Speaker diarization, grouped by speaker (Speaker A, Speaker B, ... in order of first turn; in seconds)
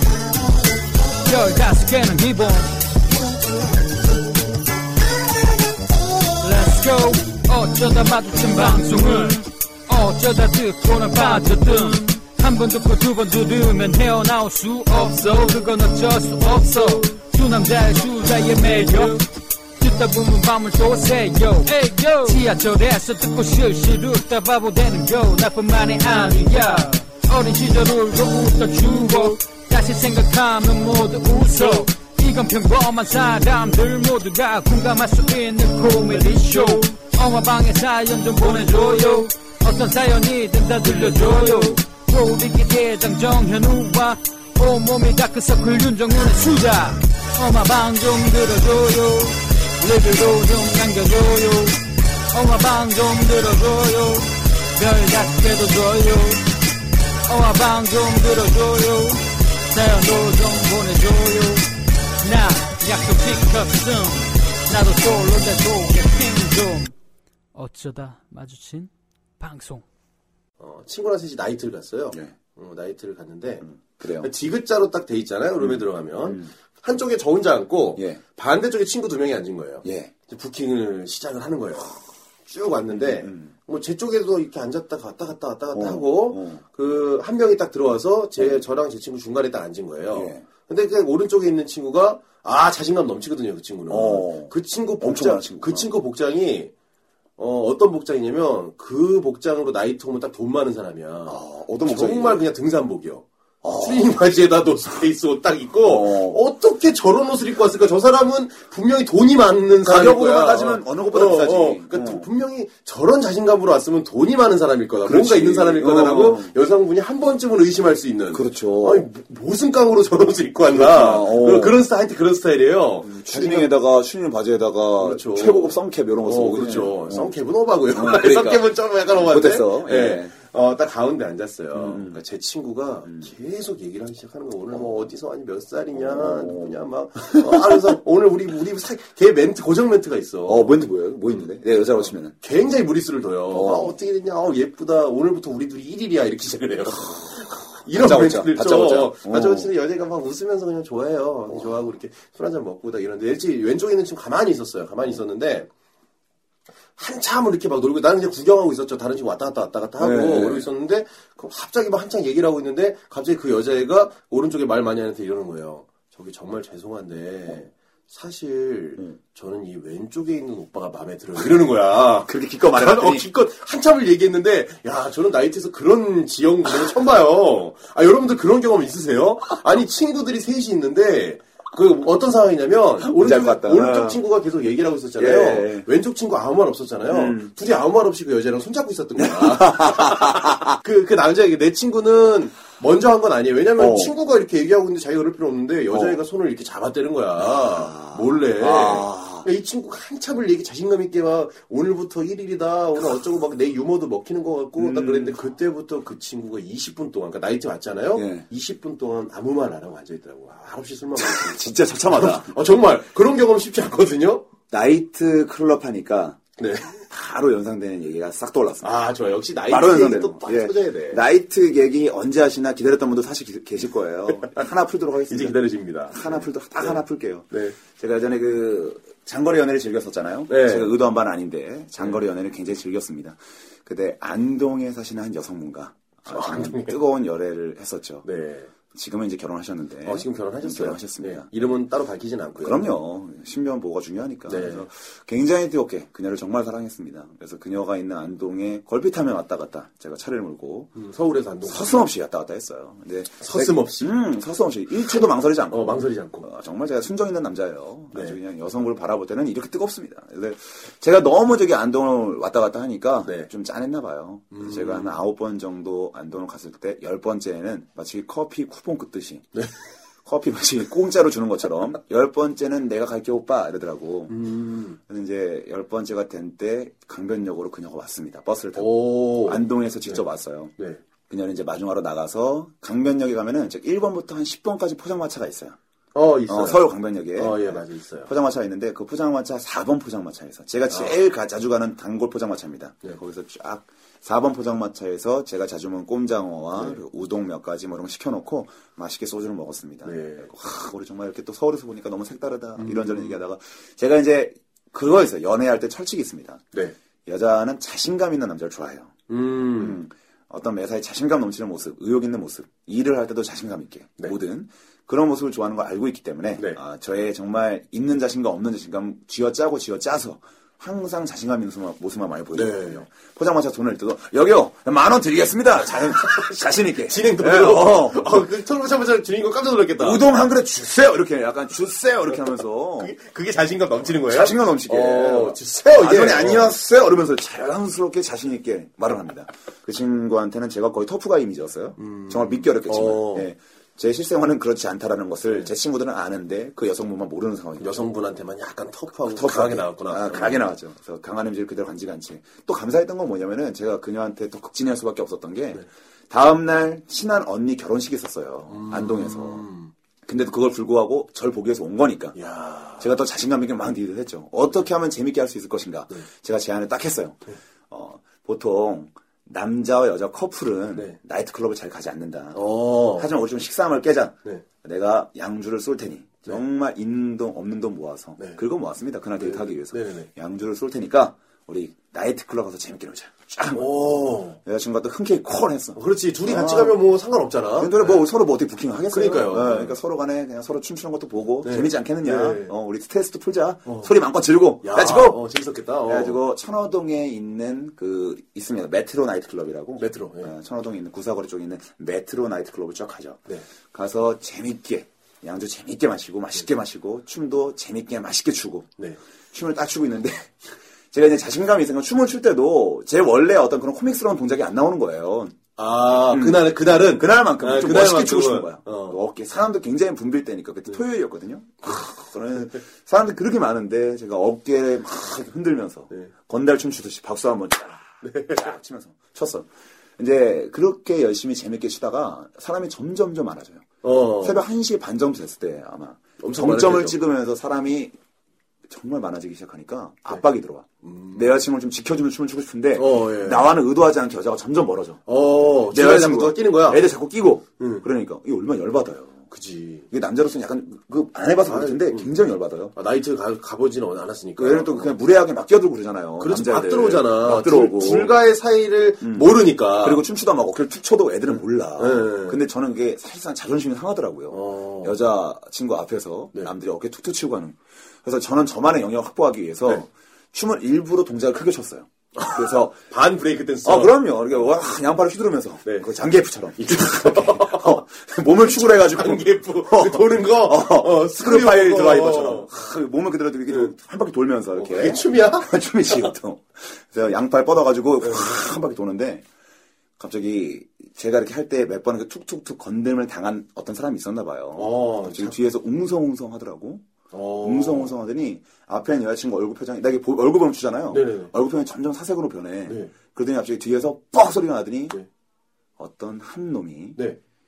Speaker A: 1.2-2.8, 6.4-19.2, 19.8-51.8, 52.3-56.5, 57.3-61.7, 62.2-66.9, 67.5-69.8
Speaker B: 70.6-73.7, 74.2-96.7, 97.4-103.3, 103.8-123.7, 125.0-140.8, 142.3-155.7, 157.0-214.4, 216.6-217.1, 218.8-221.2, 224.3-224.7, 225.3-227.8, 230.5-230.9, 236.3-237.0, 238.2-238.7, 240.0-242.9, 244.5-244.9, 250.9-252.1, 253.4-254.2, 255.7-256.5, 258.1-258.4, 263.2-263.5, 264.5-265.2, 274.3-275.0, 278.8-280.2, 286.1-288.3, 290.9-291.2, 296.8-297.0, 300.0-300.5, 302.8-303.4, 309.3-310.0, 322.5-323.0, 326.2-330.2, 333.0-336.7, 342.0-343.5, 347.8-350.7, 358.7-359.9, 362.4-363.1, 372.5-373.3, 379.4-380.3, 383.7-384.6, 385.9-388.2, 389.1-389.9, 391.6-392.7, 394.8-396.4, 400.0-400.5, 415.8-419.2, 428.2-428.7, 434.0-434.6, 436.4-437.2, 441.0-441.5, 442.9-443.8, 445.3-447.1, 447.8-448.1, 449.5-450.1, 451.7-452.3, 452.9-455.1, 456.4-460.2, 462.0-462.6, 464.5-465.2, 472.4-474.2, 476.8-478.0, 478.6-482.7, 484.8-486.3, 494.8-495.6, 497.3-498.1, 501.1-501.5, 502.9-503.1
Speaker C: 73.6-74.3, 75.6-76.5, 79.8-80.1, 82.9-83.5, 85.7-86.6, 90.1-90.5, 93.9-95.9, 101.3-102.4, 103.6-104.1, 105.8-106.4, 109.8-112.3, 115.0-116.5, 118.3-119.1, 120.7-121.8, 123.0-127.4, 127.9-130.3, 131.8-132.2, 135.9-138.0, 140.5-142.3, 143.5-143.9, 147.9-149.7, 160.0-160.7, 172.2-173.3, 183.0-184.2, 185.2-185.9, 187.1-187.5, 189.2-190.8, 193.8-194.1, 195.9-196.2, 197.4-199.5, 204.8-205.4, 208.2-208.5, 211.2-212.5, 214.7-216.4, 217.1-218.9, 219.7-238.3, 238.9-241.5, 242.6-250.9, 251.7-269.5, 270.2-274.5, 275.0-280.7, 281.3-285.8, 286.5-306.6, 307.3-309.1, 309.8-328.4, 330.0-333.1, 334.3-348.1, 349.3-359.7, 360.3-362.4, 363.0-383.9, 384.6-387.0, 387.8-395.4, 396.1-408.9, 409.5-438.1, 438.9-449.4, 450.1-452.9, 454.6-458.3, 459.2-473.0, 473.9-489.4, 490.2-497.1, 497.6-505.2, 506.0-507.2